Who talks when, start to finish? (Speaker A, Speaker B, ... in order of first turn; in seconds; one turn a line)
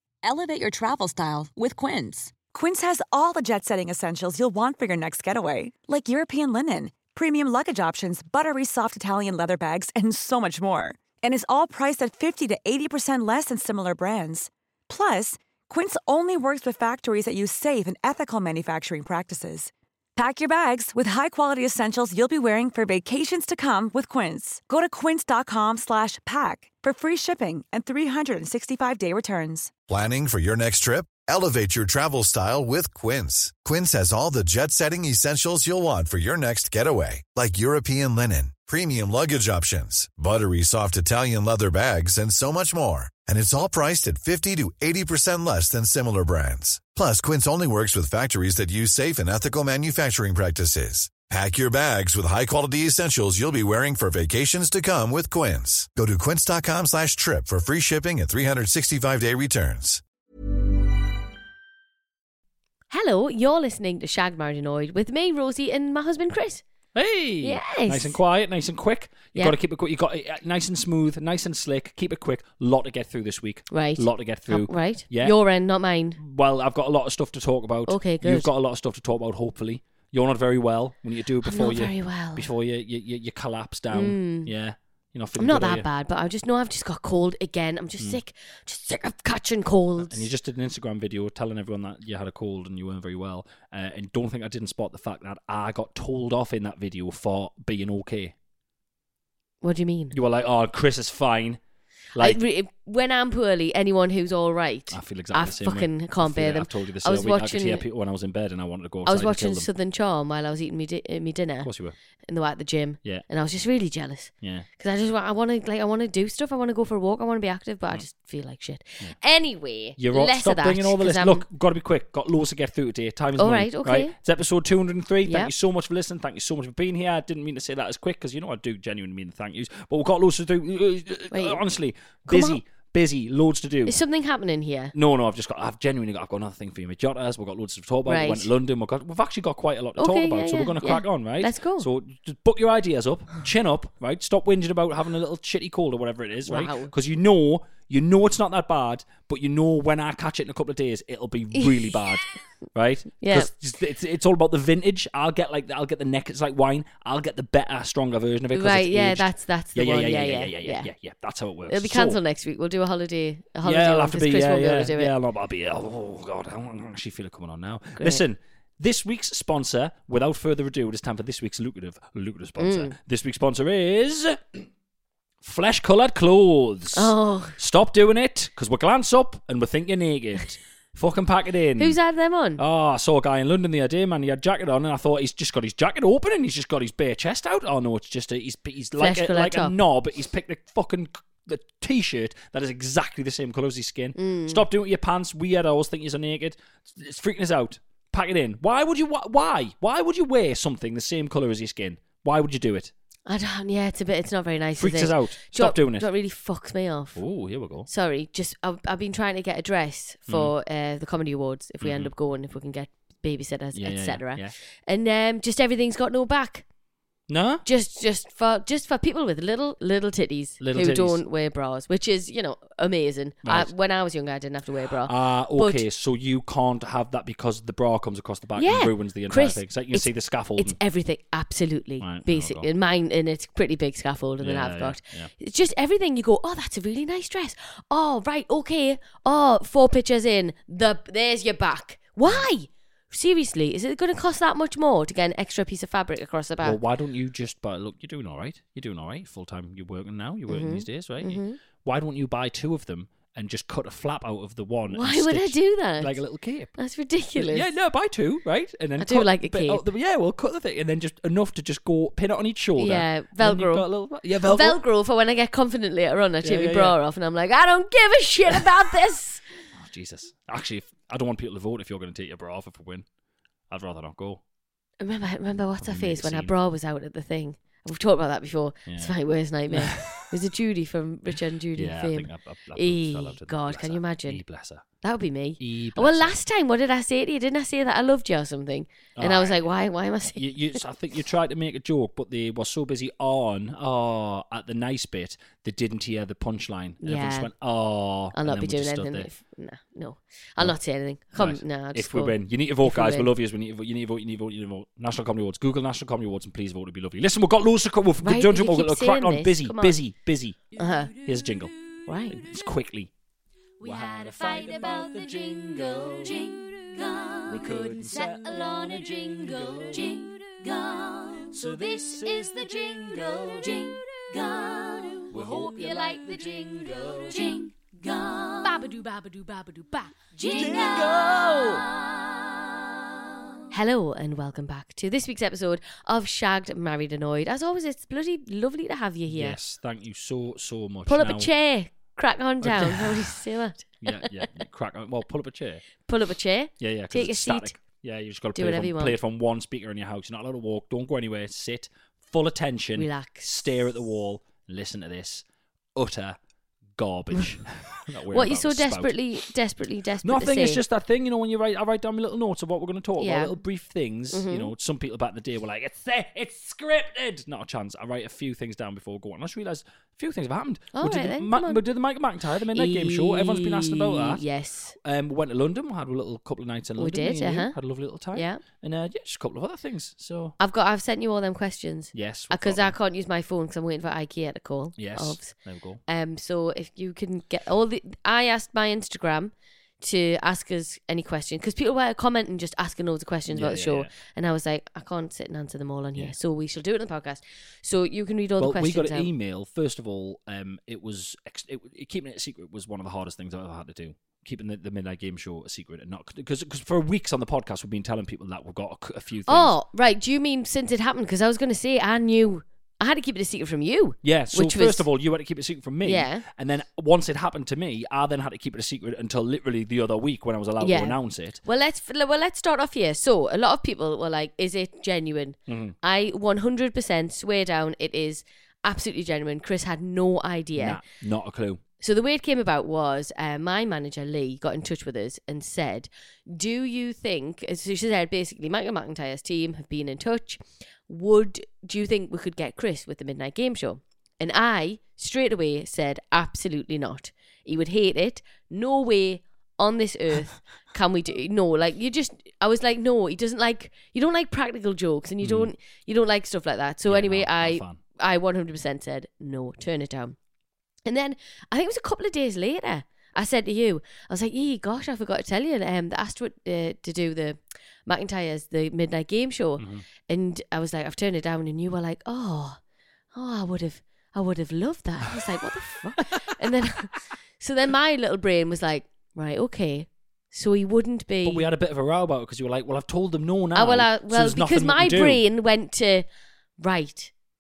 Speaker A: 0.2-2.3
Speaker B: 0.5-1.8
Speaker B: 2.5-29.7
Speaker C: 29.9-60.0
Speaker D: 62.9-66.6
Speaker E: 67.0-75.3
Speaker D: 67.4-68.2
Speaker D: 73.7-76.2
Speaker E: 76.2-85.9
Speaker D: 77.9-78.5
Speaker D: 81.4-82.5
Speaker D: 83.9-84.5
Speaker D: 85.4-90.3
Speaker E: 90.0-98.3
Speaker D: 99.6-100.2
Speaker E: 100.1-101.6
Speaker D: 102.2-107.8
Speaker E: 104.9-109.7
Speaker D: 109.1-111.7
Speaker E: 111.6-112.0
Speaker D: 112.2-121.4
Speaker E: 120.0-134.0
Speaker D: 123.4-124.1
Speaker D: 125.3-125.5
Speaker D: 131.3-131.6
Speaker D: 132.3-132.6
Speaker D: 133.9-134.9
Speaker E: 134.9-162.2
Speaker D: 138.1-138.5
Speaker D: 140.0-141.9
Speaker D: 146.5-146.9
Speaker D: 153.2-153.5
Speaker D: 158.5-160.9
Speaker D: 161.7-165.1
Speaker E: 163.6-174.7
Speaker D: 172.6-172.9
Speaker E: 175.4-182.0
Speaker D: 176.9-177.6
Speaker D: 181.8-182.6
Speaker E: 182.6-202.9
Speaker D: 189.0-189.8
Speaker D: 194.2-194.6
Speaker D: 203.3-207.2
Speaker E: 204.8-206.1
Speaker E: 207.2-207.9
Speaker D: 207.9-216.6
Speaker E: 210.3-210.5
Speaker E: 211.8-212.1
Speaker E: 213.7-214.5
Speaker E: 217.3-217.6
Speaker D: 217.7-225.8
Speaker E: 220.6-221.2
Speaker E: 223.4-223.7
Speaker E: 225.0-230.8
Speaker D: 228.6-246.8
Speaker E: 232.0-232.7
Speaker E: 234.4-235.3
Speaker E: 246.6-256.7
Speaker D: 250.5-251.6
Speaker D: 254.9-256.1
Speaker D: 256.8-257.7
Speaker E: 257.4-264.8
Speaker D: 259.0-259.8
Speaker D: 262.8-263.9
Speaker D: 264.5-269.4
Speaker E: 266.4-267.0
Speaker E: 269.8-273.1
Speaker E: 273.7-274.4
Speaker D: 275.0-284.4
Speaker E: 275.8-276.5
Speaker E: 278.9-279.1
Speaker E: 279.7-280.3
Speaker E: 281.8-284.8
Speaker D: 285.0-290.4
Speaker E: 285.6-286.4
Speaker E: 289.2-289.6
Speaker E: 290.4-299.3
Speaker D: 297.0-297.5
Speaker D: 298.3-303.3
Speaker E: 301.3-310.6
Speaker D: 308.2-310.0
Speaker D: 310.8-311.1
Speaker F: 310.8-311.1
Speaker E: 311.1-311.7
Speaker D: 312.1-312.4
Speaker E: 312.3-313.1
Speaker F: 313.8-316.5
Speaker E: 313.8-320.2
Speaker F: 317.5-326.5
Speaker E: 321.3-327.6
Speaker F: 327.3-331.2
Speaker E: 330.4-331.9
Speaker D: 333.7-339.6
Speaker E: 339.3-341.5
Speaker D: 341.1-344.2
Speaker E: 342.6-343.4
Speaker E: 344.0-345.9
Speaker D: 346.1-347.7
Speaker E: 346.8-355.4
Speaker D: 348.6-349.2
Speaker D: 353.0-353.5
Speaker E: 355.9-356.4
Speaker E: 356.9-359.1
Speaker D: 358.3-360.8
Speaker E: 360.2-374.4
Speaker D: 363.2-363.5
Speaker D: 364.3-364.7
Speaker D: 370.9-371.8
Speaker D: 372.8-374.9
Speaker E: 375.0-380.6
Speaker D: 377.0-377.7
Speaker D: 378.3-378.6
Speaker D: 380.6-385.5
Speaker E: 382.1-382.9
Speaker E: 385.0-386.0
Speaker D: 386.1-399.3
Speaker E: 393.5-394.1
Speaker E: 398.6-409.8
Speaker D: 409.5-415.1
Speaker E: 414.2-421.6
Speaker D: 416.0-416.4
Speaker D: 420.8-431.0
Speaker E: 425.7-426.0
Speaker E: 430.8-431.8
Speaker D: 432.0-460.4
Speaker E: 455.4-455.7
Speaker E: 457.1-458.0
Speaker D: 461.1-472.8
Speaker E: 469.8-470.1
Speaker D: 473.3-481.7
Speaker E: 481.4-485.4
Speaker D: 483.8-486.3
Speaker D: 486.8-487.3